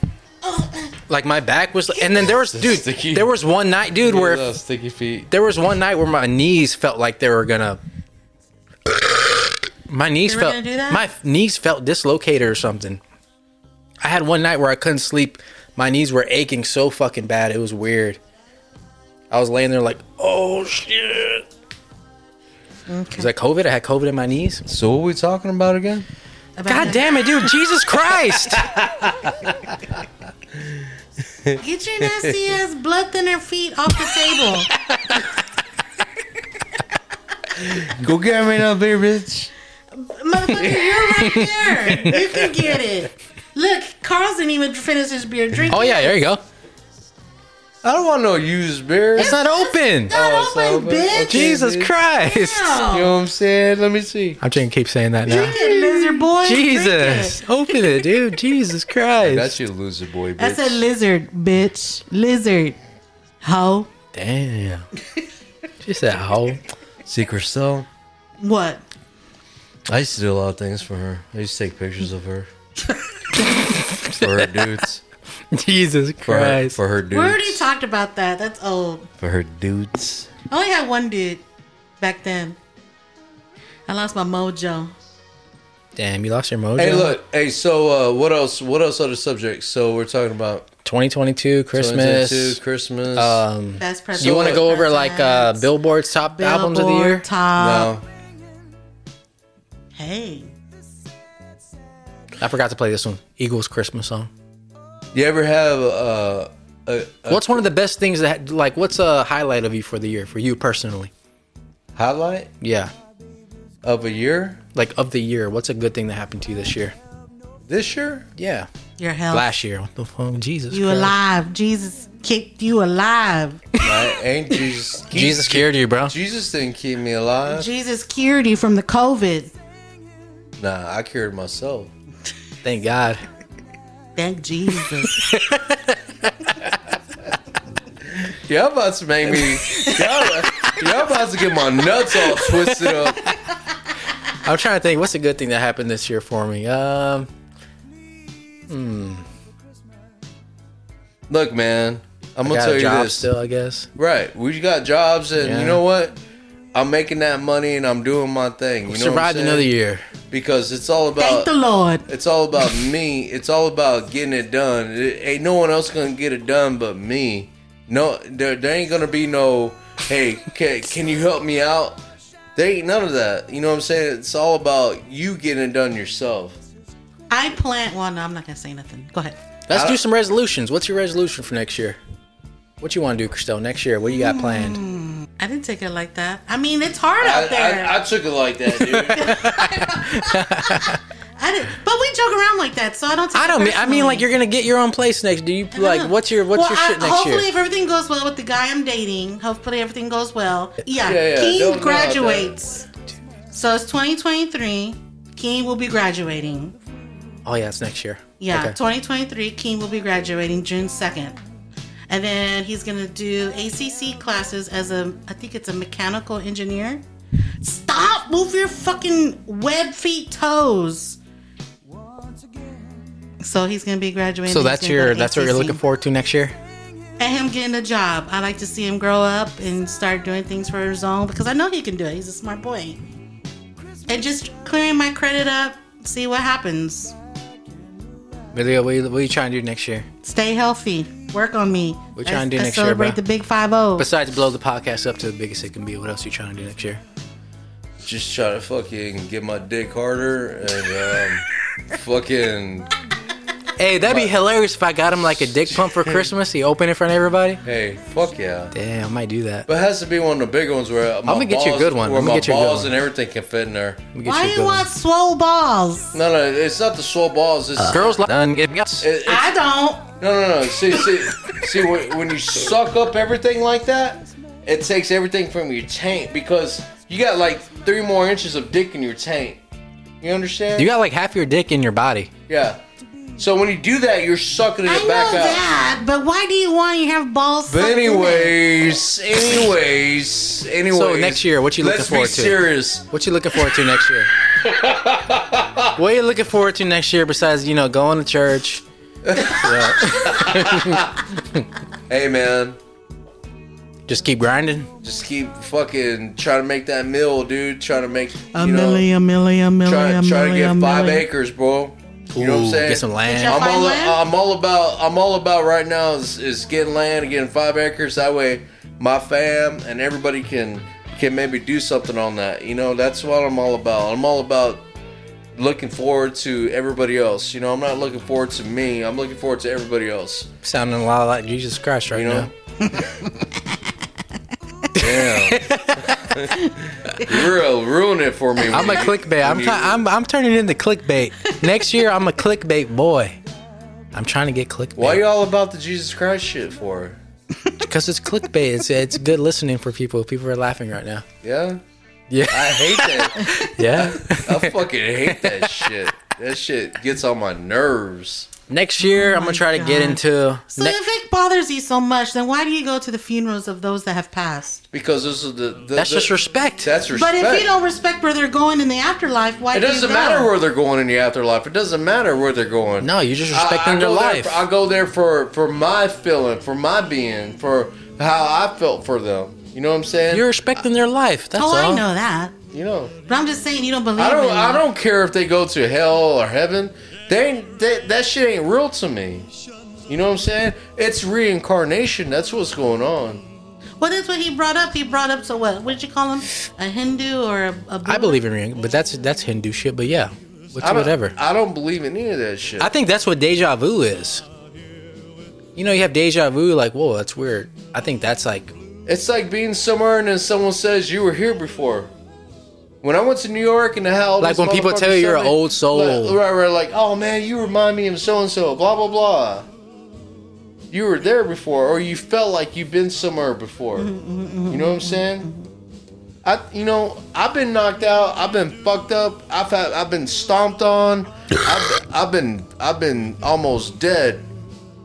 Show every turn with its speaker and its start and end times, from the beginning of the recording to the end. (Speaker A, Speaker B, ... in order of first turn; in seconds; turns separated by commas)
Speaker A: 0.4-0.9, Speaker B: 1.1-4.5, Speaker C: 2.3-3.3, Speaker C: 4.0-5.3, Speaker B: 5.3-7.8, Speaker B: 9.9-13.0, Speaker A: 10.3-11.0, Speaker B: 14.0-18.2, Speaker B: 19.3-21.4, Speaker A: 22.9-23.3, Speaker B: 23.2-24.6, Speaker C: 24.6-26.1, Speaker A: 26.6-27.1, Speaker B: 26.7-28.7, Speaker C: 28.6-29.8, Speaker C: 30.6-30.8, Speaker C: 31.4-32.3, Speaker A: 31.6-34.7, Speaker C: 37.6-39.5, Speaker A: 39.9-46.1, Speaker B: 41.1-42.1, Speaker B: 45.7-46.4, Speaker C: 47.8-49.4, Speaker B: 49.2-50.1, Speaker A: 49.2-51.6, Speaker C: 50.1-51.9, Speaker B: 51.2-52.8, Speaker A: 52.2-53.1, Speaker C: 52.9-54.4, Speaker B: 54.4-59.5, Speaker A: 55.3-57.4, Speaker C: 55.3-55.9, Speaker C: 59.2-60.8, Speaker A: 60.4-62.8, Speaker A: 63.4-63.9, Speaker B: 64.1-64.8, Speaker B: 65.8-66.6, Speaker C: 67.0-67.9, Speaker A: 68.4-68.8, Speaker C: 69.9-72.5, Speaker B: 73.6-74.7, Speaker C: 74.2-75.0, Speaker B: 75.5-76.8, Speaker C: 76.2-77.7, Speaker A: 77.1-79.1, Speaker C: 79.2-80.3, Speaker A: 80.5-81.4, Speaker A: 82.0-82.6, Speaker A: 83.9-84.9, Speaker B: 86.0-87.2, Speaker C: 86.8-90.7, Speaker B: 90.8-92.6, Speaker C: 91.7-93.4, Speaker B: 93.1-97.2, Speaker A: 93.8-95.7, Speaker C: 94.2-94.6, Speaker A: 96.3-97.9, Speaker C: 97.6-98.0, Speaker A: 99.9-100.5, Speaker B: 102.4-104.3, Speaker C: 105.1-107.6, Speaker B: 107.3-111.1, Speaker C: 111.9-112.5, Speaker B: 112.6-112.9, Speaker C: 113.8-114.6, Speaker B: 114.7-116.9, Speaker C: 117.7-118.3, Speaker B: 118.3-118.7, Speaker A: 119.0-119.5, Speaker B: 119.3-121.1, Speaker A: 120.7-123.7, Speaker C: 123.8-127.7, Speaker B: 125.1-126.1, Speaker A: 127.5-129.5, Speaker C: 130.6-131.9, Speaker B: 132.6-133.2, Speaker A: 134.2-135.2, Speaker B: 135.1-136.5, Speaker C: 138.1-143.2, Speaker B: 144.4-147.3, Speaker B: 148.7-149.2, Speaker C: 151.3-153.3, Speaker B: 152.4-153.9, Speaker C: 153.9-156.2, Speaker B: 155.4-155.8, Speaker C: 156.7-159.7, Speaker B: 158.9-160.0, Speaker C: 160.3-161.5, Speaker A: 161.2-162.1, Speaker C: 162.1-172.0, Speaker C: 172.6-176.6, Speaker A: 177.3-179.4, Speaker B: 179.7-182.0, Speaker C: 179.7-180.0, Speaker B: 182.8-184.8, Speaker A: 184.1-188.0, Speaker C: 187.2-189.4, Speaker B: 188.8-191.0, Speaker A: 189.2-194.3, Speaker B: 193.3-197.5, Speaker A: 195.7-202.9, Speaker C: 201.0-202.5, Speaker A: 203.5-206.8, Speaker B: 207.4-208.8, Speaker A: 208.4-211.4, Speaker A: 212.1-217.0, Speaker A: 217.6-221.2, Speaker A: 223.4-225.8, Speaker B: 224.5-226.6, Speaker A: 227.2-233.0, Speaker A: 234.1-237.1, Speaker B: 238.5-240.1, Speaker A: 240.2-244.1, Speaker B: 242.1-243.2, Speaker B: 244.0-247.0, Speaker C: 248.0-252.9, Speaker B: 253.8-257.6, Speaker C: 254.0-254.4, Speaker C: 255.7-256.3, Speaker C: 257.6-258.7, Speaker B: 258.7-259.7, Speaker C: 259.7-264.1, Speaker B: 261.3-262.9, Speaker B: 264.1-264.8, Speaker A: 264.2-266.2, Speaker C: 266.1-268.2, Speaker B: 267.8-269.1, Speaker C: 269.0-269.5, Speaker A: 269.2-270.1, Speaker C: 270.2-279.6, Speaker C: 280.2-280.9, Speaker B: 280.8-282.3, Speaker C: 282.5-282.8, Speaker C: 283.4-285.6, Speaker A: 284.9-288.5, Speaker C: 287.7-293.1, Speaker B: 290.9-292.6, Speaker B: 293.1-294.3, Speaker C: 294.6-295.9, Speaker B: 295.9-298.8, Speaker C: 299.2-301.1, Speaker B: 299.4-301.1, Speaker C: 302.1-302.8, Speaker B: 304.1-304.9, Speaker C: 305.0-309.1, Speaker A: 308.5-311.2, Speaker C: 309.8-324.8, Speaker B: 312.3-313.7, Speaker A: 313.2-314.2, Speaker C: 325.5-330.5, Speaker B: 330.6-332.5, Speaker C: 332.1-332.5, Speaker B: 334.9-336.2, Speaker C: 335.0-340.0, Speaker B: 338.7-343.4, Speaker B: 344.1-345.2, Speaker C: 344.9-347.2, Speaker B: 347.8-351.2, Speaker C: 351.4-351.8, Speaker B: 352.3-354.8, Speaker C: 352.4-358.5, Speaker B: 355.3-355.9, Speaker B: 358.7-361.0, Speaker A: 359.0-360.2, Speaker A: 360.7-364.8, Speaker C: 364.9-367.7, Speaker B: 365.9-366.9, Speaker A: 367.1-370.5, Speaker C: 369.7-380.5, Speaker B: 373.0-374.6, Speaker B: 380.3-382.0, Speaker A: 381.6-382.6, Speaker C: 382.7-383.2, Speaker A: 383.2-384.8, Speaker C: 384.2-389.5, Speaker C: 390.1-393.4, Speaker A: 394.0-398.4, Speaker B: 398.1-401.3, Speaker C: 400.8-402.9, Speaker B: 402.8-404.4, Speaker B: 405.8-408.7, Speaker C: 409.1-412.1, Speaker C: 413.0-419.7, Speaker B: 414.4-416.4, Speaker C: 420.9-424.1, Speaker A: 423.9-425.7, Speaker C: 424.7-425.5, Speaker C: 426.4-434.5